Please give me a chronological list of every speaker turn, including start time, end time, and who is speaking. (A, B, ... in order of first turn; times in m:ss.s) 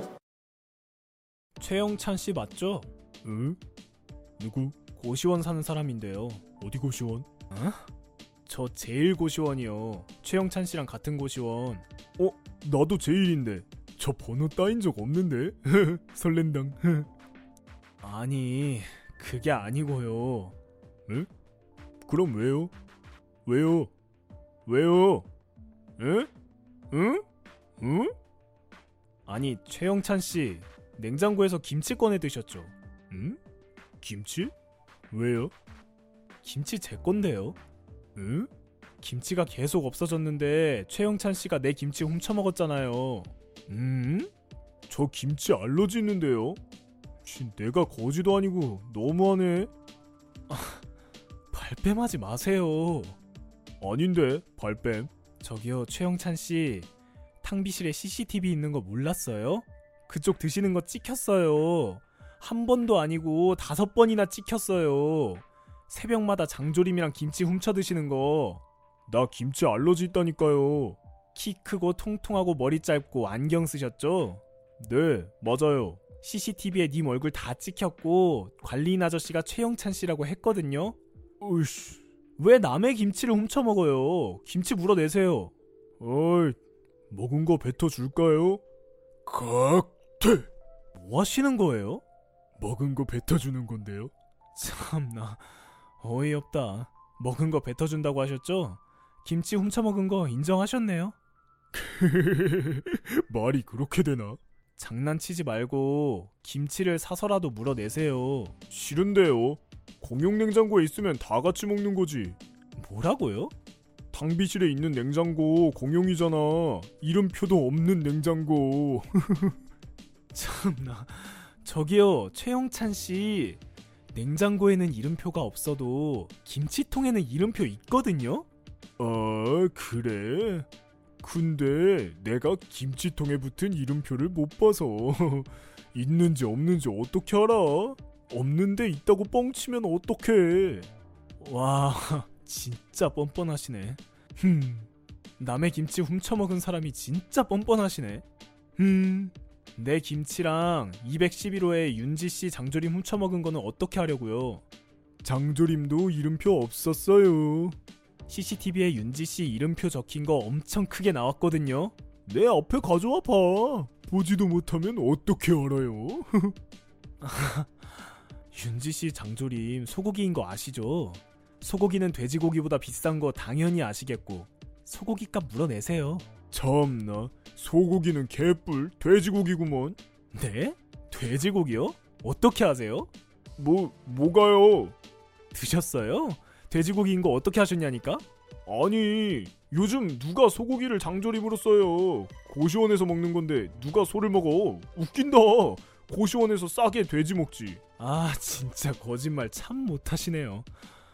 0:01.6-0:03.6 A
0:04.4-0:07.9 A
0:08.4-0:17.1 A
0:18.0-0:21.3 A
0:22.0-0:22.7 A
0:23.4-0:23.9 A
0:24.6-0:25.3 A
0:26.0-0:26.3 A
0:26.9-0:27.2 A
0:27.8-0:28.1 A
0:29.2-0:33.4 A
0:34.0-0:34.5 A
0:35.1-0:35.5 A
0:36.4-0:37.6 A
0:38.2-0:38.5 A
0:39.0-0:44.3 A
0:44.9-0:46.6 A
0:47.2-0:49.7 A
0:50.5-0:50.8 A
0:51.5-0:53.2 A
0:53.8-0:56.9 A
0:57.4-1:26.6 A
1:27.1-1:28.6 A
1:29.2-1:32.0 A
1:32.6-1:35.5 A
1:36.0-1:41.2 A
1:41.7-1:53.5 A
1:54.1-1:59.6 A
2:00.3-2:03.6 A
2:04.1-2:08.5 A
2:09.0-2:10.7 A
2:11.2-2:28.2 A
2:28.8-2:34.6 A
2:35.2-2:37.8 A
2:38.3-2:46.6 A
2:47.2-3:05.0 A
3:05.5-3:20.7 A